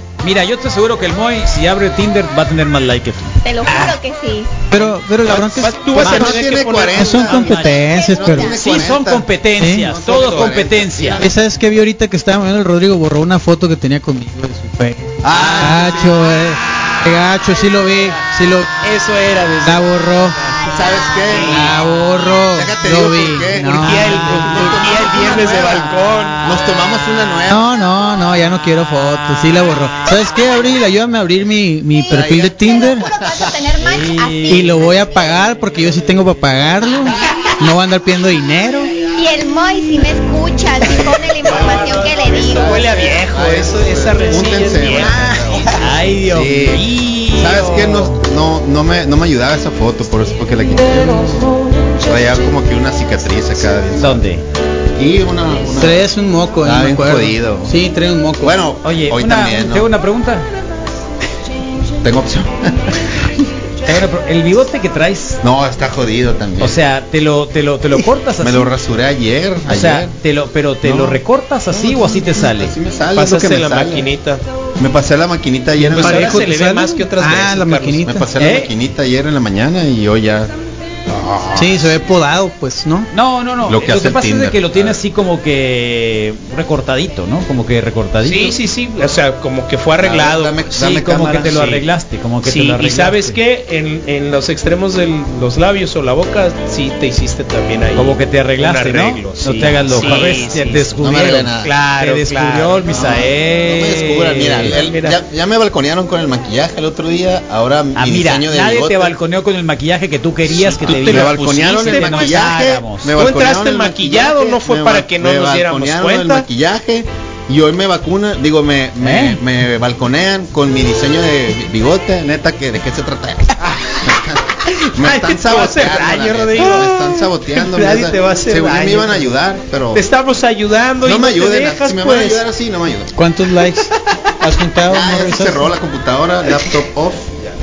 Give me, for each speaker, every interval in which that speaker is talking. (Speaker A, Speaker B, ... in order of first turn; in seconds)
Speaker A: 0.2-3.4, 6.0-6.4, 7.1-11.2, 15.3-16.0, 33.8-34.8, 45.7-48.1, 54.0-54.4, 58.8-60.4, 63.9-65.4, 66.6-68.7, 69.7-72.7, 78.4-78.7, 83.1-88.5, 90.8-93.4, 97.9-104.8, 108.0-113.1, 119.0-119.4
Speaker B: 3.4-4.5, 7.7-8.6, 32.1-35.0, 39.1-42.8
Speaker C: 4.7-6.1, 6.9-8.5, 9.6-9.9, 11.2-18.7, 19.6-20.4, 21.4-24.8, 27.5-33.1, 34.5-38.9, 55.8-58.5, 75.8-78.2, 81.5-83.1, 133.1-135.7
Speaker D: 5.2-7.4, 10.1-10.5, 18.8-20.6, 21.3-21.8, 23.7-26.4, 42.4-45.5, 73.1-74.4, 75.9-78.0, 88.2-90.8, 91.4-91.8, 92.4-103.2, 104.6-105.2, 110.6-112.4, 113.1-116.5, 125.0-129.3, 129.9-132.4
Speaker E: 5.9-9.3, 9.8-11.3, 15.2-16.1, 20.7-21.8, 22.5-25.9, 26.4-27.7, 32.1-33.5, 40.9-51.4, 52.0-54.3, 55.0-56.0, 56.6-57.7, 58.4-59.9, 62.0-63.0, 65.4-66.8, 68.4-70.1, 70.8-74.1, 74.8-76.4, 78.0-80.5, 81.1-81.7, 83.6-85.0, 90.0-91.6, 99.9-100.3, 101.0-101.7, 102.9-109.2, 110.8-130.0, 131.0-133.1, 134.9-137.3